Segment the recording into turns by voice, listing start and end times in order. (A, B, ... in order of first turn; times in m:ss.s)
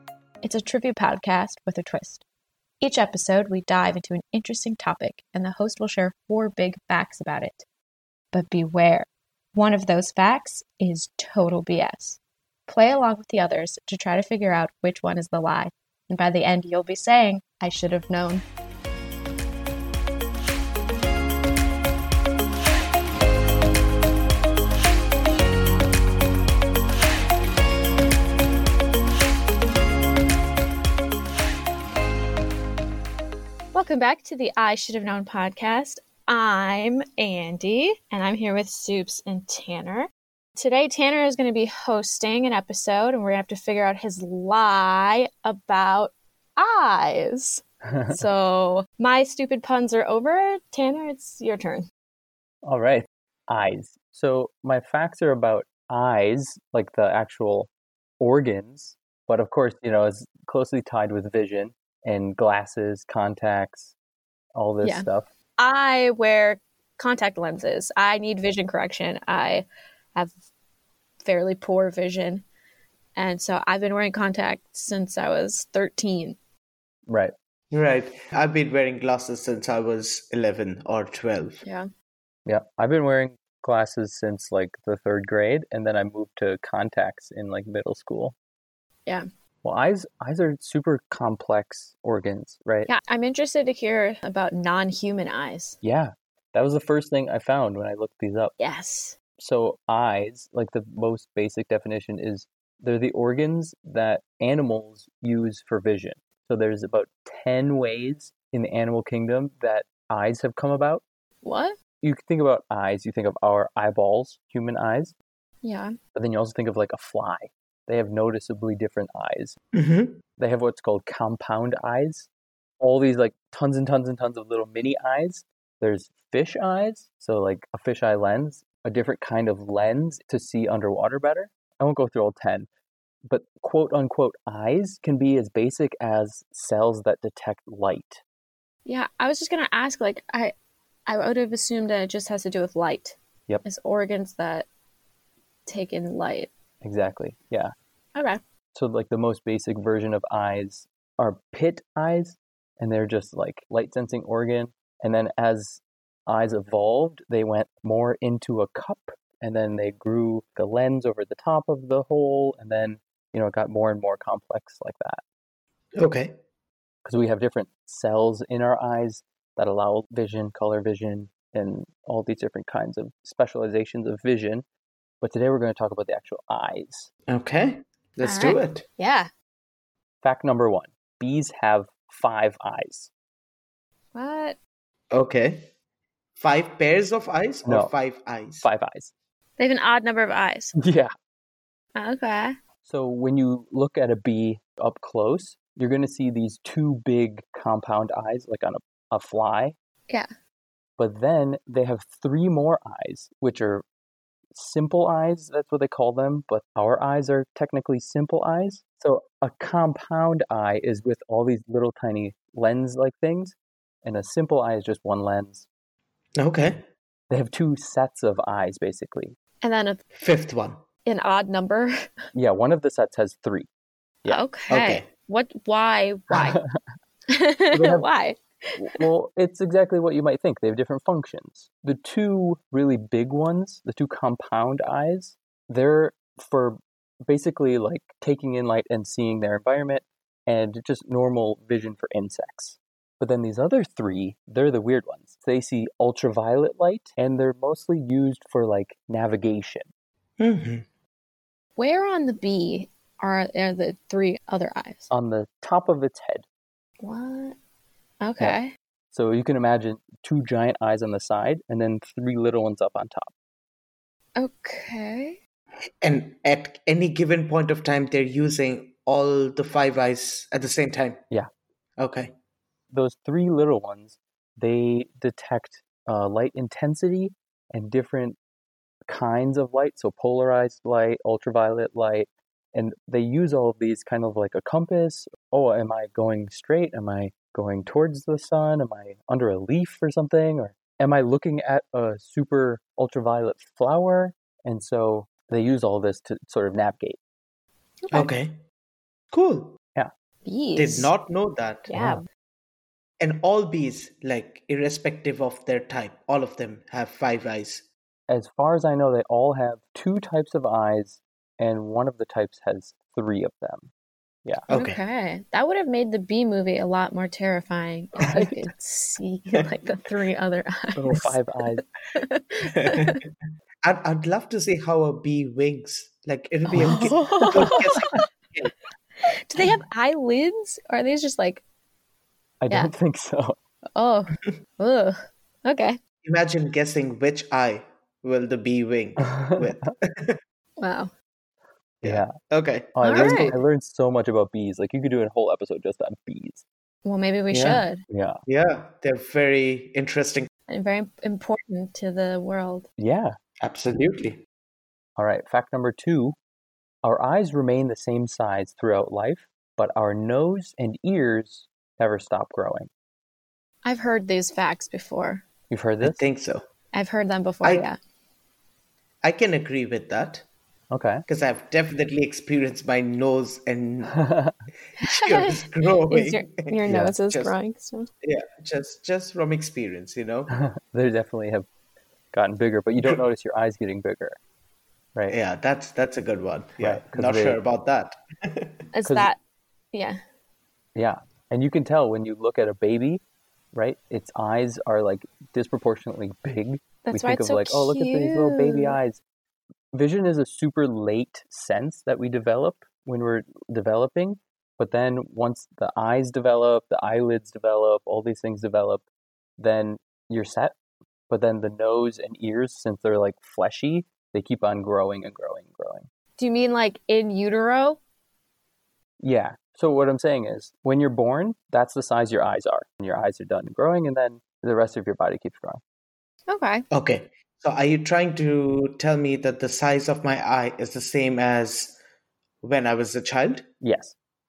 0:00.4-0:02.2 A
0:02.8-0:07.6 A
0:08.3-0:18.4 A
0:33.7-0:51.8 A
0:47.9-0:48.2 B
0:52.6-1:04.0 B
1:04.6-1:05.3 B
1:04.8-1:05.1 A
1:05.6-1:10.3 A
1:11.2-1:12.4 A
1:13.2-1:16.4 A
1:17.1-1:17.3 B
1:17.7-1:21.6 C
1:21.6-1:21.9 A
1:22.5-1:28.4 B
1:29.6-1:32.9 B
1:32.9-1:35.8 A
1:35.8-1:38.5 B
1:38.6-1:39.2 A
1:39.4-1:51.0 B
1:51.4-1:51.8 A
1:52.0-1:55.1 B
1:55.6-1:55.9 A
1:56.2-1:59.6 B
1:59.7-2:00.2 C
2:00.4-2:02.3 B
2:02.8-2:12.7 B
2:13.3-2:18.2 B
2:18.9-2:20.5 A
2:21.1-2:24.7 A
2:25.7-2:26.5 A
2:26.8-2:27.7 B
2:28.7-2:45.2 B
2:46.0-2:46.4 C
2:47.0-2:54.6 B
2:55.2-2:57.1 B
2:57.3-2:58.8 C
2:58.2-2:59.3 A
3:00.2-3:03.1 B
3:04.1-3:04.6 A
3:05.1-3:05.7 C
3:06.4-3:08.7 C
3:07.6-3:07.9 B
3:08.6-3:09.1 B
3:09.6-3:10.8 A
3:10.8-3:11.1 B
3:12.0-3:12.5 A
3:12.8-3:19.8 B
3:21.0-3:23.8 B
3:24.5-3:35.7 B
3:36.4-3:36.9 C
3:37.3-3:39.4 B
3:39.6-3:40.0 A
3:40.1-3:40.8 C
3:41.1-3:41.9 A
3:42.4-3:43.7 B
3:44.3-3:46.6 A
3:44.7-3:45.1 C
3:46.3-3:46.6 B
3:47.3-3:49.0 A
3:47.7-3:48.1 B
3:48.8-4:09.9 B
4:10.4-4:10.8 C
4:11.8-4:15.1 A
4:15.1-4:16.5 B
4:17.0-4:17.6 A
4:18.2-4:18.7 A
4:19.1-4:23.3 B
4:24.4-4:25.4 A
4:26.0-4:31.2 C
4:32.0-4:32.3 C
4:32.9-4:38.4 B
4:39.1-4:57.2 B
4:58.1-4:58.3 A
4:58.1-4:58.6 C
4:59.3-4:59.8 C
5:00.5-5:01.1 A
5:00.8-5:01.9 C
5:01.9-5:02.2 A
5:01.9-5:02.2 B
5:03.2-5:07.9 C
5:08.3-5:13.9 B
5:14.7-5:15.0 C
5:14.7-5:23.2 A
5:18.2-5:18.7 B
5:21.0-5:21.8 B
5:22.9-5:23.2 C
5:23.8-5:28.7 C
5:26.8-5:28.2 A
5:27.5-5:27.8 B
5:29.3-5:31.6 A
5:32.6-5:33.6 B
5:34.0-5:36.0 A
5:36.2-5:40.4 C
5:39.2-5:39.7 B
5:40.8-5:41.1 A
5:42.0-5:43.6 C
5:42.0-5:42.3 B
5:42.9-5:46.6 B
5:43.0-5:43.6 A
5:47.0-5:48.0 A
5:47.5-5:47.8 C
5:48.1-5:48.4 B
5:48.5-5:50.5 C
5:50.7-5:52.9 A
5:53.0-5:53.3 B
5:53.6-5:54.4 C
5:55.2-5:56.4 B
5:57.0-6:02.9 B
6:03.8-6:05.4 A
6:05.7-6:06.2 B
6:06.0-6:06.6 C
6:06.9-6:08.0 A
6:09.2-6:10.5 C
6:10.9-6:11.2 B
6:11.3-6:14.2 C
6:14.2-6:14.5 B
6:15.0-6:17.6 C
6:15.0-6:18.1 A
6:16.9-6:17.2 B
6:18.2-6:20.6 C
6:20.5-6:21.7 B
6:22.3-6:24.4 B
6:25.3-6:28.8 C
6:26.8-6:27.6 B
6:28.9-6:29.4 A
6:29.0-6:29.3 B
6:29.9-6:30.2 A
6:31.0-6:33.2 B
6:33.7-6:39.2 B
6:37.0-6:39.0 A
6:39.9-6:49.0 B
6:49.6-6:50.8 B
6:51.3-6:56.1 B
6:56.4-6:58.0 A
6:59.2-7:05.8 B
7:06.5-7:06.8 A
7:06.9-7:12.0 C
7:12.6-7:13.6 C
7:13.8-7:14.2 B